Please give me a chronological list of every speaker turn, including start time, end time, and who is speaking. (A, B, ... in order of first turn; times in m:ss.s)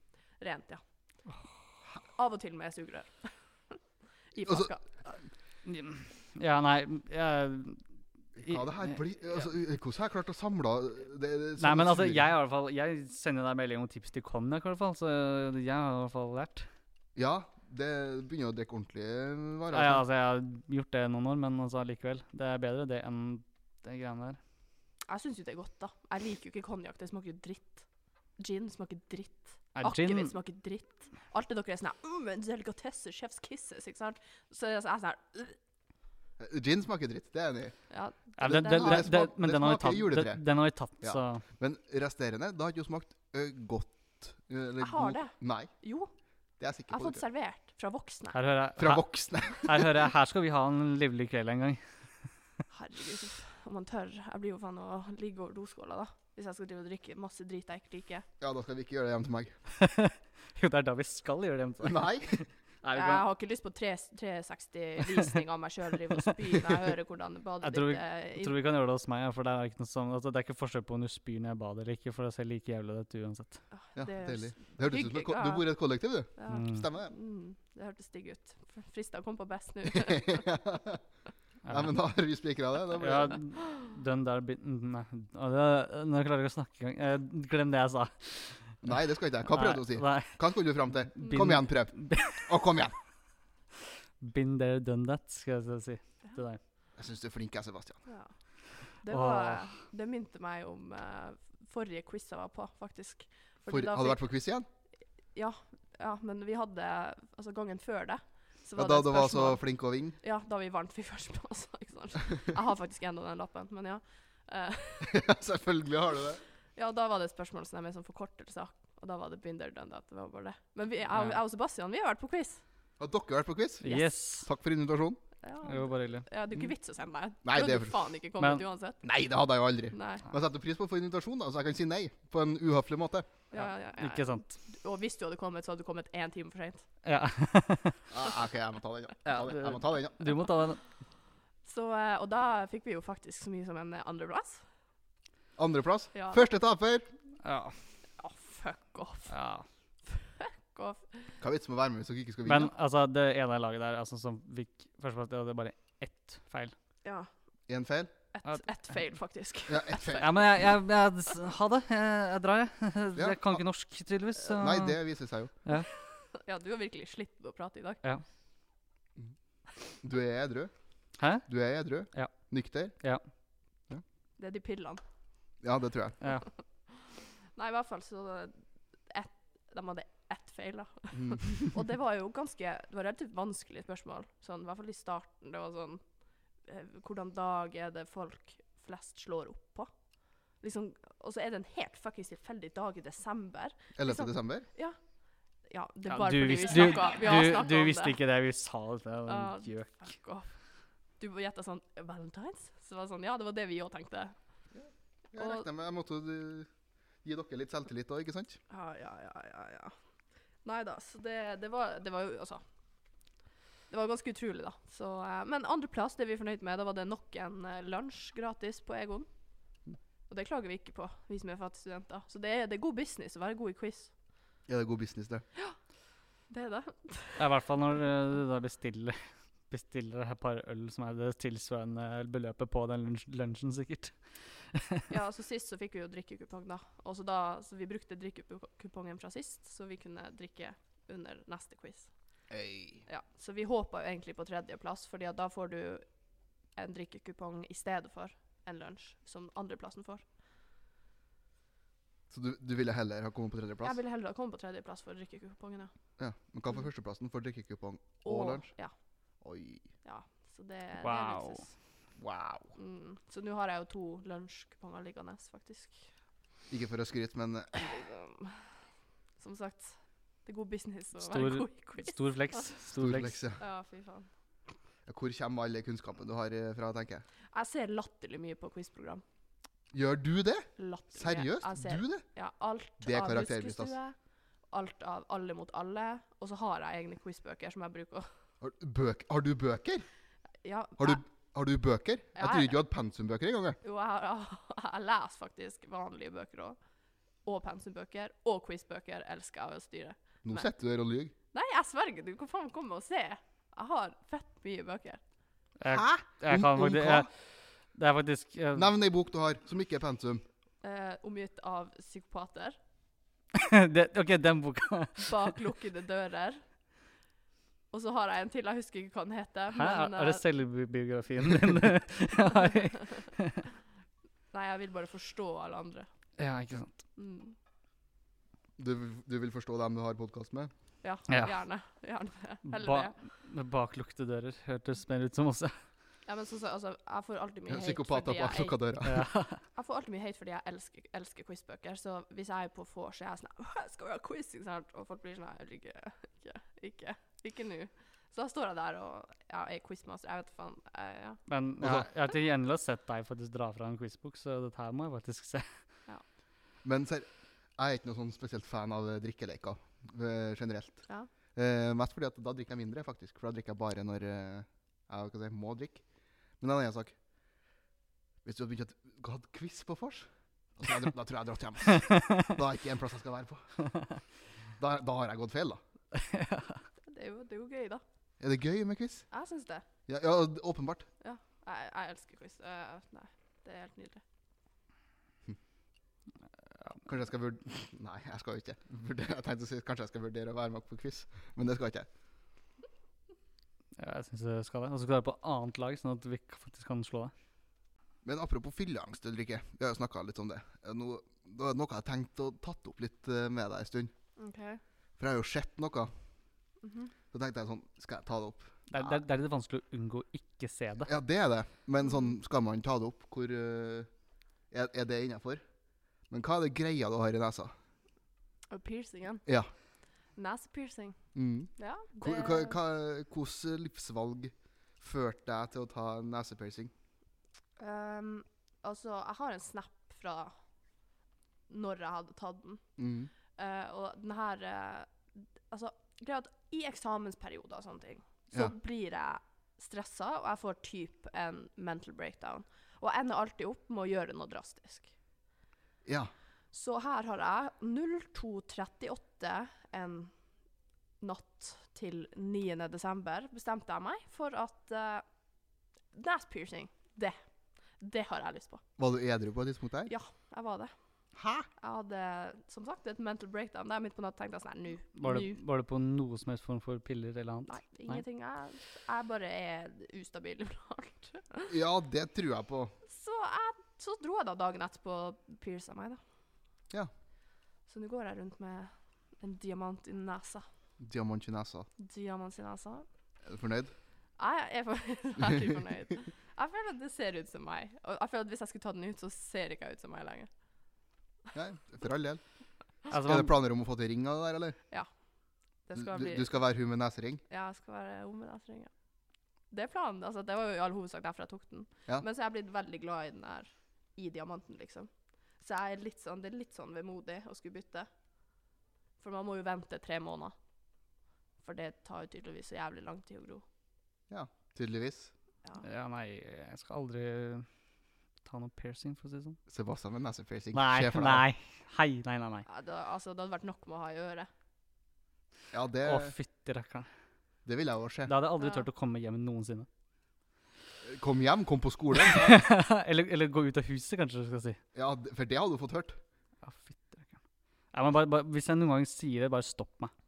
0:00.4-0:00.8 A
0:02.1-0:03.8 A
0:04.3-0:04.8 A
0:04.4-0:04.7 B
0:05.6-0:07.8 C
0:08.4-0:09.4 C
0:08.4-0:12.2 B
0:11.6-0:16.7 C
0:17.1-0:20.0 B
0:19.7-0:24.4 C
0:25.1-0:27.8 A
0:28.4-0:35.6 A
0:29.7-0:30.3 C
0:36.4-0:37.8 B
0:37.9-0:39.1 A
0:38.4-0:41.4 C
0:38.4-0:40.4 B
0:41.0-0:45.7 B
0:44.8-0:46.1 A
0:46.6-0:47.2 B
0:46.9-0:48.4 A
0:48.3-0:51.8 C
0:48.8-0:50.0 B
0:52.7-0:58.2 A
0:58.4-0:59.5 B
0:59.8-1:03.2 C
1:01.8-1:02.4 B
1:02.9-1:08.5 A
1:07.6-1:13.6 C
1:13.7-1:15.7 A
1:14.0-1:17.1 B
1:16.4-1:20.5 A
1:16.5-1:16.8 C
1:19.9-1:21.0 B
1:21.6-1:21.9 C
1:21.7-1:23.4 B
1:22.9-1:28.9 C
1:28.8-1:32.9 B
1:29.5-1:30.4 C
1:31.1-1:32.5 C
1:34.2-1:36.6 C
1:37.0-1:38.0 B
1:38.1-1:38.3 A
1:39.0-1:44.2 A
1:39.1-1:39.7 C
1:43.7-1:44.6 B
1:45.3-1:55.2 A
1:48.8-1:50.2 B
1:55.0-1:56.4 B
1:56.8-2:02.6 A
2:01.1-2:01.4 C
2:03.0-2:05.2 B
2:03.8-2:04.5 C
2:03.8-2:04.1 A
2:05.4-2:09.0 A
2:05.6-2:06.2 C
2:07.4-2:07.9 B
2:09.0-2:13.3 B
2:09.9-2:10.2 A
2:13.5-2:16.8 A
2:13.5-2:14.4 C
2:17.0-2:18.0 C
2:18.1-2:20.2 B
2:19.2-2:20.8 C
2:21.6-2:24.6 A
2:25.6-2:27.1 B
2:26.1-2:26.4 A
2:27.4-2:27.8 C
2:28.2-2:29.3 A
2:29.3-2:29.6 C
2:30.1-2:31.2 A
2:31.4-2:32.7 B
2:32.4-2:36.7 C
2:37.0-2:37.3 A
2:37.7-2:38.1 B
2:38.3-2:40.4 A
2:39.7-2:40.3 B
2:40.1-2:45.0 C
2:43.1-2:43.6 B
2:44.5-2:45.5 B
2:46.3-2:48.0 A
2:50.0-2:50.7 B
2:51.2-2:51.5 C
2:51.5-2:52.9 B
2:52.1-2:52.5 C
2:54.4-2:55.0 A
2:55.6-2:56.2 B
2:56.9-3:06.0 A
3:01.1-3:01.6 B
3:06.6-3:09.9 A
3:10.6-3:15.0 A
3:14.0-3:14.7 B
3:15.7-3:18.2 A
3:16.1-3:20.1 C
3:19.3-3:20.5 A
3:21.2-3:24.3 A
3:24.7-3:26.7 B
3:25.4-3:25.6 A
3:27.2-3:28.6 B
3:28.7-3:29.9 A
3:30.6-3:32.6 A
3:33.9-3:39.3 A
3:40.3-3:44.1 A
3:44.7-3:45.4 B
3:46.5-3:47.4 A
3:47.4-3:55.1 C
3:55.1-4:02.1 A
4:02.5-4:03.0 B
4:03.1-4:06.0 A
4:06.8-4:10.2 A
4:12.3-4:14.0 B
4:13.8-4:15.9 A
4:16.2-4:18.7 B
4:18.2-4:18.9 A
4:19.4-4:19.9 B
4:20.0-4:21.7 A
4:21.0-4:21.6 C
4:22.2-4:22.7 B
4:22.8-4:26.0 A
4:26.7-4:28.0 B
4:27.8-4:28.7 A
4:29.4-4:32.7 A
4:31.2-4:33.4 C
4:32.9-4:33.6 B
4:33.6-4:34.3 A
4:35.1-4:37.2 B
4:37.5-4:39.2 A
4:39.9-4:42.2 B
4:40.8-4:44.1 A
4:43.0-4:43.9 B
4:44.7-4:48.3 A
4:48.6-4:50.0 B
4:50.6-4:51.2 A
4:51.0-4:53.8 B
4:52.4-4:52.8 A
4:53.8-4:56.8 A
4:57.4-5:00.7 A
5:00.4-5:01.3 B
5:01.5-5:05.2 A
5:05.8-5:07.3 C
5:05.9-5:07.3 B
5:07.9-5:08.9 C
5:08.7-5:10.4 B
5:10.8-5:12.8 A
5:13.5-5:15.5 C
5:15.2-5:16.6 A
5:17.9-5:20.4 A
5:19.7-5:23.6 C
5:24.5-5:26.1 A
5:26.4-5:27.0 C
5:27.2-5:27.5 A
5:28.8-5:30.7 B
5:31.0-5:33.1 A
5:31.3-5:31.5 C
5:32.6-5:35.7 C
5:36.2-5:38.8 A
5:37.7-5:39.2 B
5:39.0-5:39.6 C
5:39.7-5:51.4 A
5:51.5-5:55.7 C
5:51.8-5:52.1 B
5:56.8-6:06.0 B
6:06.6-6:07.2 B
6:08.4-6:13.7 B
6:11.9-6:12.5 C
6:14.8-6:15.8 B
6:16.1-6:16.8 C
6:17.1-6:18.0 A
6:18.4-6:19.3 B
6:19.3-6:19.8 A
6:20.1-6:21.0 B
6:21.2-6:24.2 A
6:27.0-6:32.1 B
6:34.0-6:37.3 C
6:38.2-6:44.1 B
6:44.4-6:44.8 A
6:45.2-6:46.1 B
6:46.8-6:47.1 A
6:47.3-6:49.2 B
6:48.9-6:51.1 C
6:51.0-6:54.1 B
6:54.7-6:55.6 B
6:56.3-6:57.7 B
6:58.7-6:59.4 A
7:00.4-7:01.2 A
7:01.3-7:06.9 B
7:01.8-7:02.8 A
7:07.8-7:10.5 A
7:11.7-7:12.8 A
7:13.0-7:13.3 B
7:13.6-7:25.1 A
7:26.0-7:26.3 B
7:26.7-7:30.3 A
7:31.2-7:35.2 A
7:36.1-7:37.4 A
7:38.0-7:38.8 A
7:39.0-7:40.1 B
7:40.1-7:40.9 A
7:41.4-7:41.7 B
7:41.8-7:45.6 A
7:45.1-7:48.2 C
7:47.7-7:51.7 A
7:51.7-7:52.9 B
7:53.0-7:56.2 A
7:57.9-8:00.6 A
8:01.0-8:01.9 B
8:02.0-8:03.0 A
8:03.4-8:03.9 B
8:04.4-8:10.5 A
8:11.5-8:12.4 B
8:13.0-8:14.8 B
8:13.1-8:13.5 C
8:15.9-8:16.5 A
8:15.9-8:17.4 B
8:17.5-8:18.9 A
8:19.7-8:28.1 A
8:29.2-8:30.5 A
8:31.6-8:33.6 A
8:34.3-8:35.3 B
8:35.8-8:37.7 C
8:38.4-8:39.6 C
8:39.7-8:41.4 B
8:40.7-8:42.6 C
8:42.6-8:44.5 A
8:45.7-8:46.3 B
8:46.0-8:47.1 C
8:47.6-8:48.3 B
8:48.3-8:49.9 C
8:48.6-8:48.8 A
8:51.0-8:52.6 B
8:52.2-8:54.8 C
8:54.9-8:56.2 B
8:56.6-8:57.3 C
8:57.9-9:00.1 C